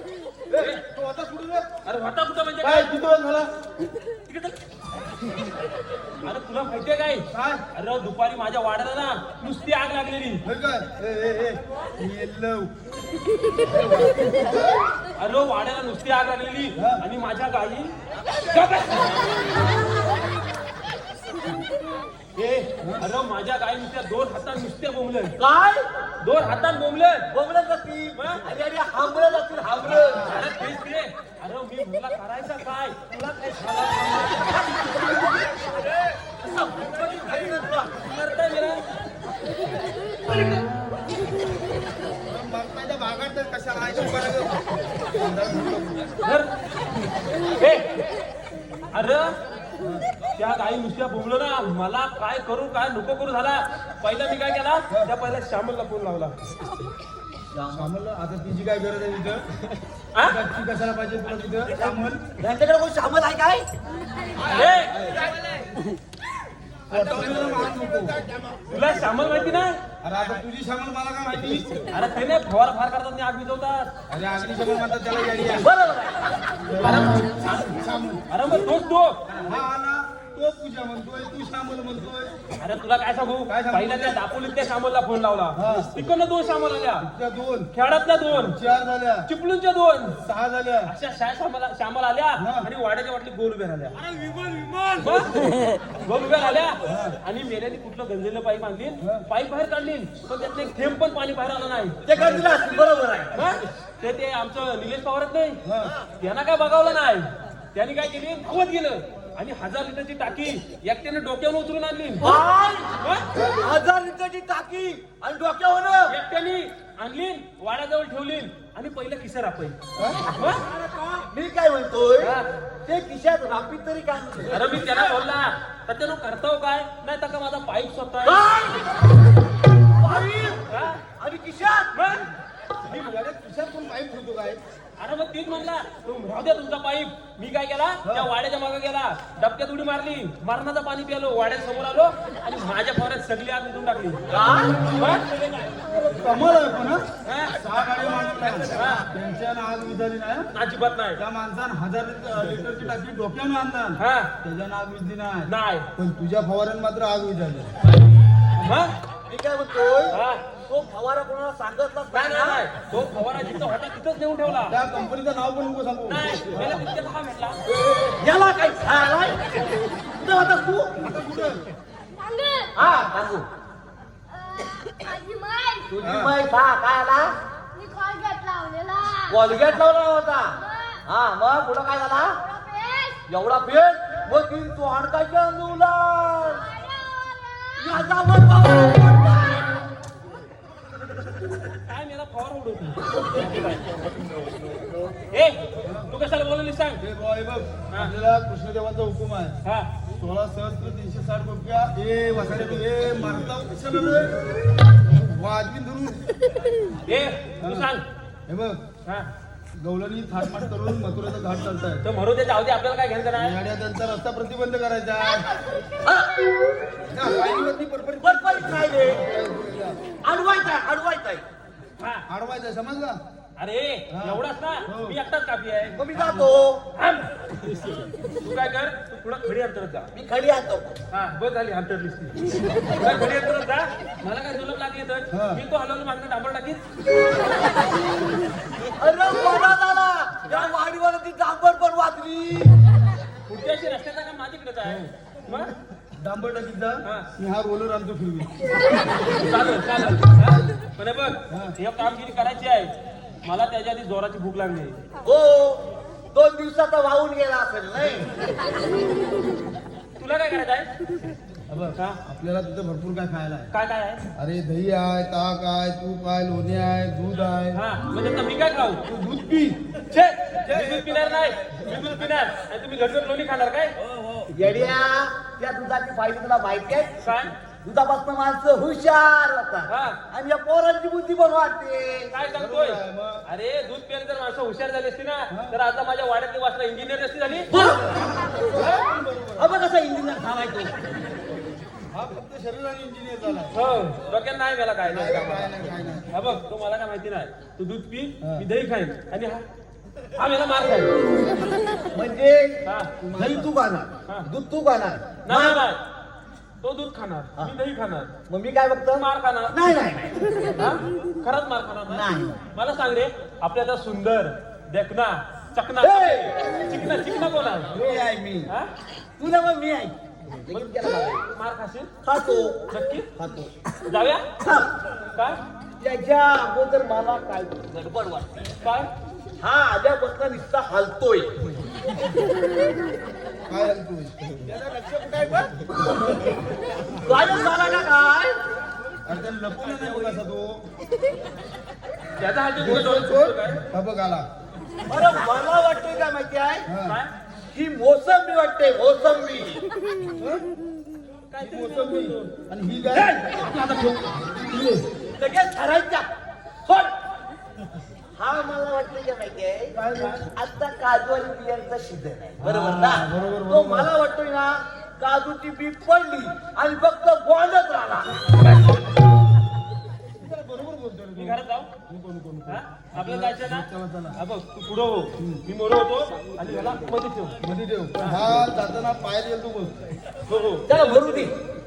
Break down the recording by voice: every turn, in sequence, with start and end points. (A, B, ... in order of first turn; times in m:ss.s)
0:00.5-0:01.7 A
0:00.5-0:00.8 B
0:01.8-0:02.9 B
0:02.6-0:03.5 A
0:04.3-0:04.6 B
0:06.2-0:10.4 B
0:07.3-0:07.6 A
0:10.4-0:12.7 A
0:13.6-0:14.4 A
0:15.2-0:17.9 B
0:16.8-0:17.0 A
0:18.5-0:19.2 B
0:22.3-0:25.3 B
0:25.4-0:25.9 C
0:26.2-0:27.3 B
0:27.3-0:30.5 C
0:28.2-0:28.4 B
0:30.3-0:33.2 B
0:34.1-0:35.2 C
0:36.4-0:37.9 C
0:37.9-0:38.8 B
0:42.3-0:46.1 A
0:46.2-0:46.5 B
0:47.6-0:47.9 B
0:48.9-0:49.4 B
0:50.3-0:56.3 B
0:57.5-0:57.9 C
0:57.7-0:59.4 A
1:00.2-1:02.2 A
1:02.4-1:03.7 C
1:04.4-1:05.1 B
1:06.9-1:08.2 A
1:08.7-1:09.8 B
1:10.0-1:11.8 A
1:11.9-1:13.9 B
1:14.1-1:15.7 A
1:15.5-1:16.4 C
1:16.6-1:18.2 A
1:16.8-1:17.3 B
1:18.3-1:19.2 B
1:19.3-1:22.3 A
1:22.6-1:27.1 B
1:23.5-1:24.2 A
1:25.5-1:25.9 A
1:27.0-1:27.7 A
1:27.7-1:28.6 B
1:28.3-1:29.3 A
1:29.3-1:30.2 B
1:30.2-1:30.9 A
1:30.8-1:34.0 B
1:32.4-1:32.7 A
1:34.9-1:42.0 B
1:36.8-1:37.2 A
1:39.0-1:39.2 A
1:42.0-1:43.4 C
1:42.2-1:42.4 A
1:43.3-1:45.6 B
1:45.6-1:45.9 A
1:46.2-1:52.4 B
1:52.2-1:53.0 C
1:53.0-1:53.2 B
1:53.5-1:56.1 C
1:56.1-1:59.8 B
2:00.0-2:00.3 A
2:00.3-2:00.6 B
2:00.7-2:05.2 C
2:04.5-2:08.4 B
2:08.2-2:09.1 C
2:10.0-2:12.0 C
2:10.7-2:11.0 B
2:11.9-2:12.3 B
2:12.9-2:14.6 A
2:15.0-2:25.2 B
2:24.3-2:25.0 C
2:26.1-2:30.5 A
2:27.2-2:27.5 B
2:28.7-2:29.0 B
2:30.5-2:31.2 B
2:31.2-2:37.7 A
2:34.0-2:34.3 B
2:35.5-2:35.9 B
2:38.6-2:38.9 B
2:39.3-2:42.6 C
2:40.1-2:40.4 B
2:42.1-2:44.8 B
2:44.5-2:46.8 A
2:46.1-2:47.6 B
2:47.7-2:49.5 C
2:50.0-2:51.0 C
2:51.0-2:51.6 A
2:52.8-2:53.5 C
2:55.0-2:55.8 D
2:55.9-2:57.3 C
2:56.0-2:56.3 A
2:57.7-2:59.2 D
2:59.1-3:02.4 C
3:02.5-3:03.1 D
3:03.2-3:06.7 C
3:07.7-3:09.9 C
3:11.8-3:13.8 B
3:15.3-3:17.0 B
3:15.8-3:16.1 A
3:17.0-3:19.6 A
3:20.1-3:24.4 A
3:25.0-3:26.3 A
3:27.0-3:28.0 B
3:27.6-3:27.9 A
3:28.5-3:28.8 A
3:29.8-3:32.0 A
3:32.0-3:33.6 B
3:33.3-3:35.4 A
3:36.0-3:36.3 C
3:37.1-3:40.0 A
3:38.2-3:39.2 C
3:40.2-3:41.4 C
3:42.0-3:42.2 B
3:42.3-3:43.2 A
3:43.6-3:46.0 B
3:44.1-3:45.2 A
3:46.0-3:46.8 C
3:46.1-3:46.5 A
3:47.0-3:47.2 B
3:48.4-3:50.1 B
3:50.1-3:51.0 C
3:51.1-3:56.8 B
3:55.3-3:55.6 A
3:59.0-4:02.7 C
4:03.4-4:05.7 B
4:06.1-4:08.5 A
4:09.3-4:12.9 B
4:11.5-4:11.8 A
4:13.4-4:15.0 B
4:15.2-4:18.4 C
4:20.2-4:20.9 B
4:21.7-4:23.7 A
4:23.7-4:24.2 B
4:24.3-4:27.8 A
4:27.7-4:29.0 B
4:29.0-4:29.8 A
4:30.1-4:33.9 B
4:30.7-4:32.5 A
4:34.4-4:37.2 C
4:37.2-4:37.5 B
4:37.8-4:42.3 C
4:39.9-4:40.2 B
4:42.3-4:47.7 B
4:42.5-4:43.4 A
4:45.5-4:45.8 A
4:47.7-4:48.6 C
4:48.1-4:49.8 A
4:49.6-4:50.9 C
4:52.1-4:53.7 A
4:53.7-4:55.7 B
4:55.0-4:56.3 A
4:56.3-4:59.6 B
5:00.4-5:01.2 B
5:02.1-5:05.9 C
5:02.8-5:03.1 B
5:03.2-5:03.7 A
5:05.4-5:06.0 B
5:06.8-5:08.3 B
5:08.5-5:10.7 C
5:09.1-5:09.8 B
5:10.8-5:18.0 B
5:12.1-5:12.6 C
5:16.0-5:16.9 C
5:17.9-5:18.7 A
5:19.4-5:21.5 C
5:21.5-5:22.1 B
5:22.2-5:23.7 C
5:22.9-5:23.3 B
5:24.0-5:24.4 B
5:24.6-5:24.9 C
5:25.3-5:25.6 B
5:26.0-5:28.8 C
5:28.8-5:29.1 B
5:29.6-5:31.5 C
5:33.7-5:34.6 A
5:34.7-5:35.7 C
5:37.1-5:38.5 C
5:39.2-5:40.8 A
5:42.4-5:43.8 B
5:42.8-5:44.4 A
5:45.1-5:46.9 C
5:46.8-5:47.2 A
5:47.0-5:47.3 B
5:47.7-5:49.8 C
5:50.4-5:50.6 A
5:51.5-5:52.5 B
5:51.6-5:53.4 A
5:53.1-5:54.2 B
5:54.4-5:55.0 A
5:55.4-5:56.3 C
5:56.8-5:57.1 C
5:58.4-6:08.5 C
5:59.9-6:00.5 A
6:02.6-6:04.1 A
6:10.4-6:14.4 A
6:11.4-6:11.9 B
6:12.7-6:17.6 B
6:15.4-6:15.6 A
6:17.6-6:19.9 A
6:18.2-6:18.6 B
6:20.5-6:21.3 B
6:20.9-6:21.5 C